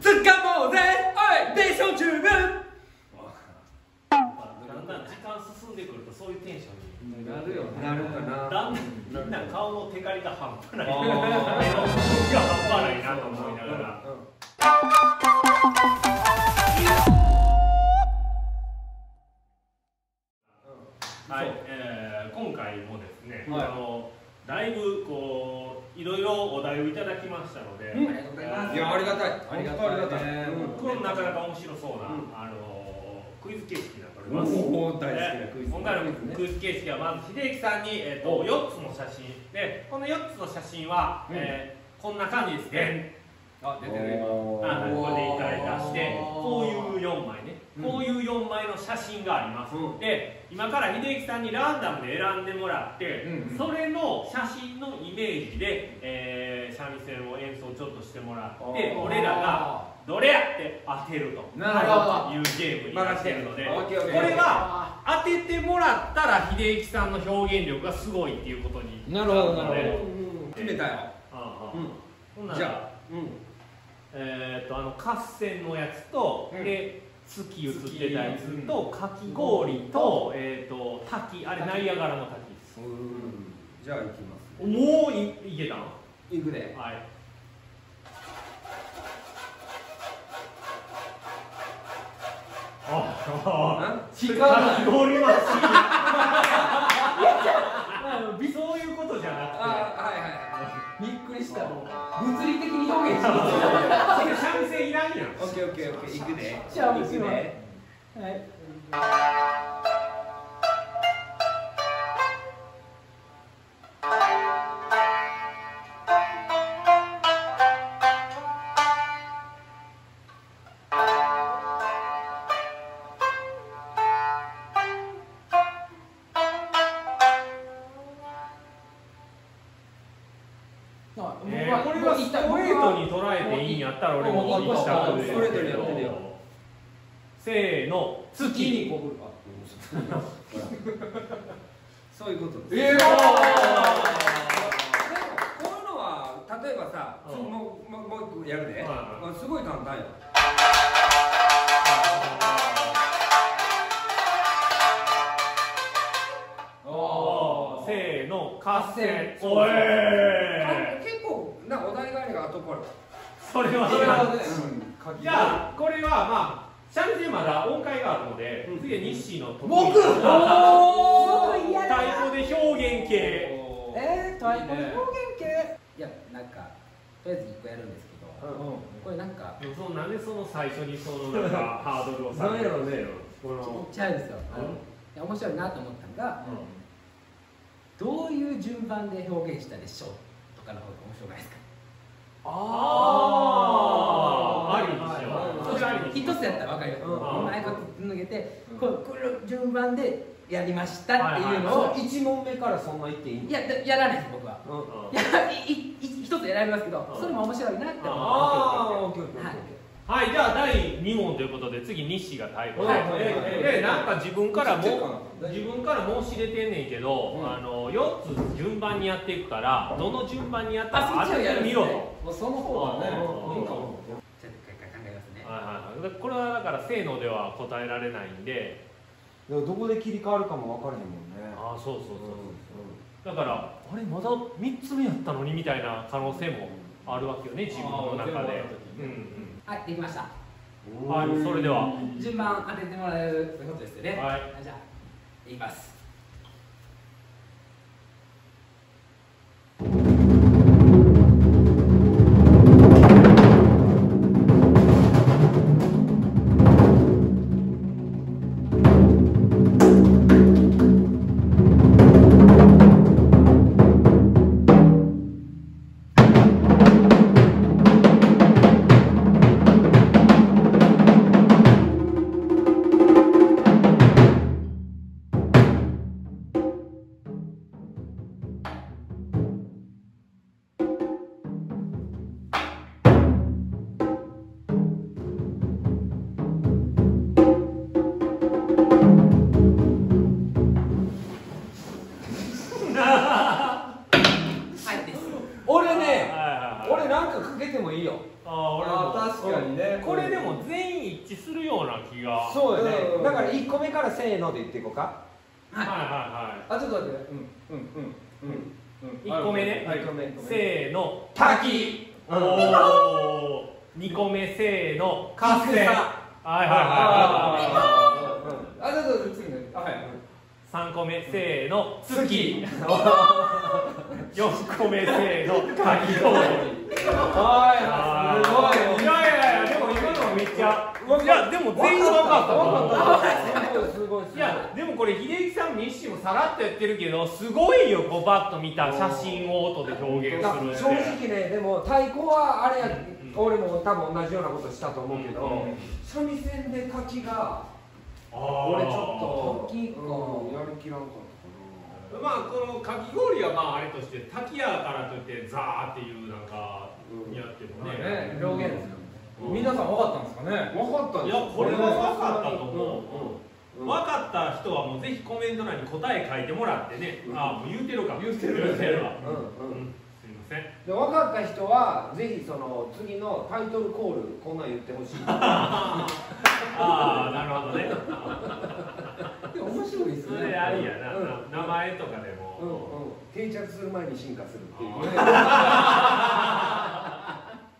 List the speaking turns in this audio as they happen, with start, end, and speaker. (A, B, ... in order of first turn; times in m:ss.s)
0:01.0-0:02.3 A
0:03.1-0:03.5 A
0:04.2-0:07.1 B
0:04.6-0:05.1 A
0:07.0-0:08.3 C
0:07.1-0:09.6 A
0:07.8-0:14.0 B
0:10.8-0:14.3 A
0:10.8-0:12.5 C
0:20.6-0:20.9 A
0:21.3-0:29.0 B
0:21.3-0:21.6 C
0:23.4-0:23.7 C
0:27.9-0:30.9 A
0:28.0-0:29.2 D
0:28.6-0:31.3 C
0:30.6-0:43.0 B
0:34.2-0:36.4 A
0:41.3-0:41.5 C
0:42.7-0:43.0 C
0:43.6-0:47.0 C
0:43.8-0:46.3 A
0:44.6-1:12.9 B
0:47.8-0:48.0 C
0:49.7-0:50.0 A
0:53.2-0:53.7 C
0:58.6-0:59.4 A
0:58.9-0:59.7 C
1:01.5-1:02.3 C
1:02.9-1:04.7 A
1:03.6-1:04.7 C
1:09.0-1:11.1 C
1:09.4-1:10.7 A
1:11.7-1:12.0 A
1:12.5-1:12.8 C
1:12.9-1:13.4 A
1:14.1-1:22.7 B
1:17.7-1:18.8 C
1:19.3-1:20.2 A
1:21.6-1:21.9 A
1:22.8-1:24.7 A
1:24.6-1:26.0 B
1:26.3-1:26.8 A
1:26.7-1:27.0 B
1:32.9-1:40.9 B
1:33.8-1:35.0 A
1:34.1-1:38.6 D
1:35.9-1:36.8 A
1:39.5-1:40.6 A
1:41.0-1:44.4 D
1:41.5-1:42.0 B
1:43.1-1:46.2 B
1:45.4-1:47.6 A
1:46.6-1:47.5 D
1:48.1-1:48.7 D
2:11.2-2:13.9 D
2:11.4-2:16.4 B
2:14.2-2:16.1 C
2:14.5-2:16.2 A
2:17.4-2:18.9 B
2:18.6-2:19.2 C
2:18.6-2:20.8 A
2:21.0-2:21.4 C
2:22.1-2:30.2 A
2:22.7-2:25.0 C
2:22.9-2:24.2 B
2:27.2-2:27.6 B
2:28.8-2:29.3 B
2:31.8-2:33.0 B
2:36.8-2:38.1 C
2:36.9-2:41.0 B
2:38.7-2:39.5 D
2:39.5-2:39.9 C
2:40.5-2:42.9 A
2:43.4-2:44.6 B
2:43.8-2:45.6 C
2:43.9-2:44.7 A
2:45.2-2:53.6 B
2:48.7-2:49.0 A
2:49.6-2:51.7 C
2:50.0-2:52.3 D
2:50.5-2:51.5 A
2:53.2-2:55.1 C
2:53.9-2:59.6 D
2:58.4-2:58.7 A
2:58.5-2:59.1 C
2:59.6-3:03.4 B
3:01.3-3:01.6 A
3:02.3-3:03.9 A
3:03.6-3:06.4 D
3:04.5-3:04.8 B
3:06.4-3:06.8 C
3:08.0-3:11.6 D
3:12.7-3:16.1 A
3:12.7-3:17.6 B
3:12.8-3:16.3 C
3:15.3-3:22.0 D
3:17.0-3:17.9 A
3:21.2-3:22.0 B
3:21.6-3:23.6 A
3:23.5-3:29.7 D
3:24.6-3:24.9 A
3:24.9-3:25.2 B
3:27.1-3:27.4 B
3:28.0-3:28.9 B
3:28.1-3:29.8 A
3:30.1-3:42.2 B
3:32.8-3:34.1 A
3:32.8-3:35.8 C
3:37.3-3:37.6 C
3:40.9-3:42.0 D
3:42.2-3:44.2 C
3:42.7-3:43.8 B
3:43.1-3:44.0 A
3:44.4-3:45.5 D
3:45.4-3:48.8 B
3:49.5-3:51.6 A
3:51.5-3:52.6 B
3:52.2-3:53.0 A
3:53.2-3:59.6 B
3:56.2-3:57.2 A
3:57.7-3:59.5 C
3:59.7-4:00.3 D
4:00.8-4:02.2 A
4:01.1-4:02.1 B
4:01.9-4:04.8 D
4:04.1-4:04.5 B
4:05.4-4:05.9 D
4:52.6-4:54.0 B
4:54.8-4:55.5 D
4:55.3-4:58.2 A
4:55.6-4:57.1 B
4:58.4-5:03.2 B
4:58.8-5:00.5 C
4:59.4-5:00.4 A
5:02.4-5:05.1 A
5:02.6-5:03.6 C
5:05.8-5:06.7 B
5:06.7-5:10.6 C
5:09.2-5:11.4 B
5:09.8-5:10.6 A
5:11.3-5:13.0 A
5:11.4-5:11.9 C
5:12.3-5:18.3 B
5:15.4-5:16.1 A
5:16.7-5:20.2 C
5:16.7-5:18.8 A
5:20.6-5:33.7 B
5:22.1-5:24.3 A
5:25.4-5:34.7 A
5:25.8-5:30.6 C
5:27.0-5:27.3 D
5:32.2-5:33.2 C
5:32.3-5:33.9 D
5:34.3-5:41.2 B
5:38.8-5:47.7 A
5:40.1-5:41.1 C
5:42.8-5:43.4 B
5:45.1-5:45.8 B
5:45.5-5:45.9 C
5:48.3-5:49.5 B
5:48.6-5:52.1 A
5:49.3-5:50.6 D
5:52.1-5:58.8 B
5:57.0-5:57.5 A
5:57.8-6:00.8 C
5:58.2-5:59.8 A
5:59.4-5:59.8 B
6:00.7-6:04.0 A
6:01.2-6:10.7 B
6:01.6-6:02.1 C
6:07.2-6:07.6 A
6:08.1-6:09.1 C
6:08.5-6:09.9 A
6:10.8-6:18.8 A
6:15.1-6:19.2 B
6:19.5-6:20.9 D
6:20.2-6:23.0 B
6:20.7-6:21.8 A
6:22.6-6:27.1 A
6:24.7-6:27.2 B
6:25.2-6:25.9 C